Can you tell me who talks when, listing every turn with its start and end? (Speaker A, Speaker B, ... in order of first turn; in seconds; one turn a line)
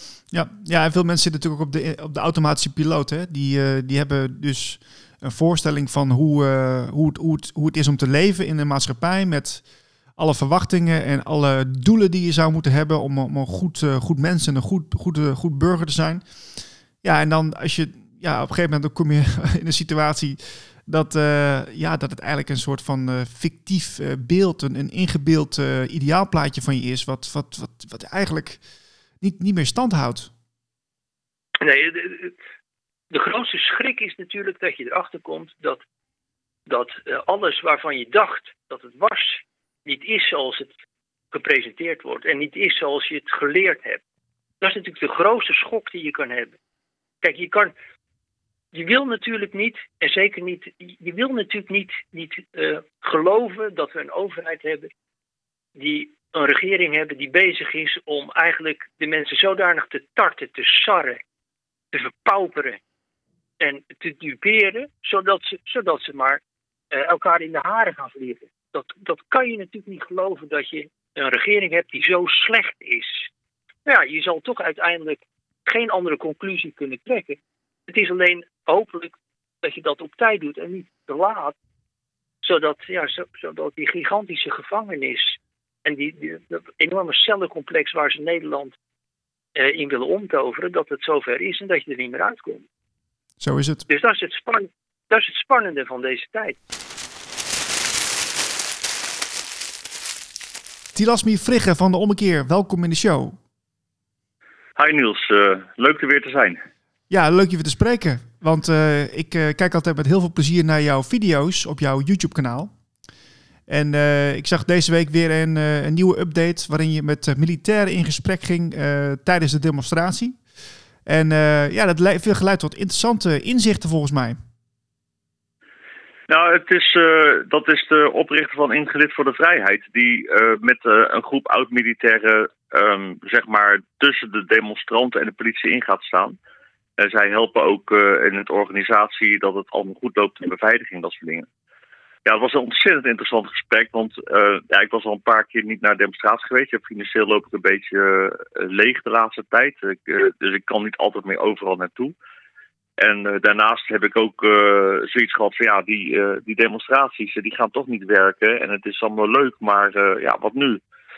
Speaker A: 0.3-9.6
Speaker A: 10.2-16.2
Speaker A: 17.0-28.6
Speaker A: 29.2-30.3
Speaker B: 31.6-32.3
Speaker B: 33.1-35.8
Speaker B: 36.7-40.7
Speaker B: 41.3-44.0
Speaker B: 44.6-46.5
Speaker B: 47.2-47.7
Speaker B: 48.7-54.9
Speaker B: 55.8-61.2
Speaker B: 61.9-62.8
Speaker B: 63.6-66.4
Speaker B: 66.9-73.3
Speaker B: 73.8-81.5
Speaker B: 82.4-88.7
Speaker B: 89.5-92.6
Speaker A: 93.4-93.8
Speaker B: 93.9-96.6
Speaker A: 100.9-103.4
Speaker C: 104.8-106.6
Speaker A: 107.1-112.7
Speaker A: 113.7-120.4
Speaker A: 121.0-124.4
Speaker C: 126.3-136.3
Speaker C: 137.0-141.5
Speaker C: 142.2-152.1
Speaker C: 153.0-160.8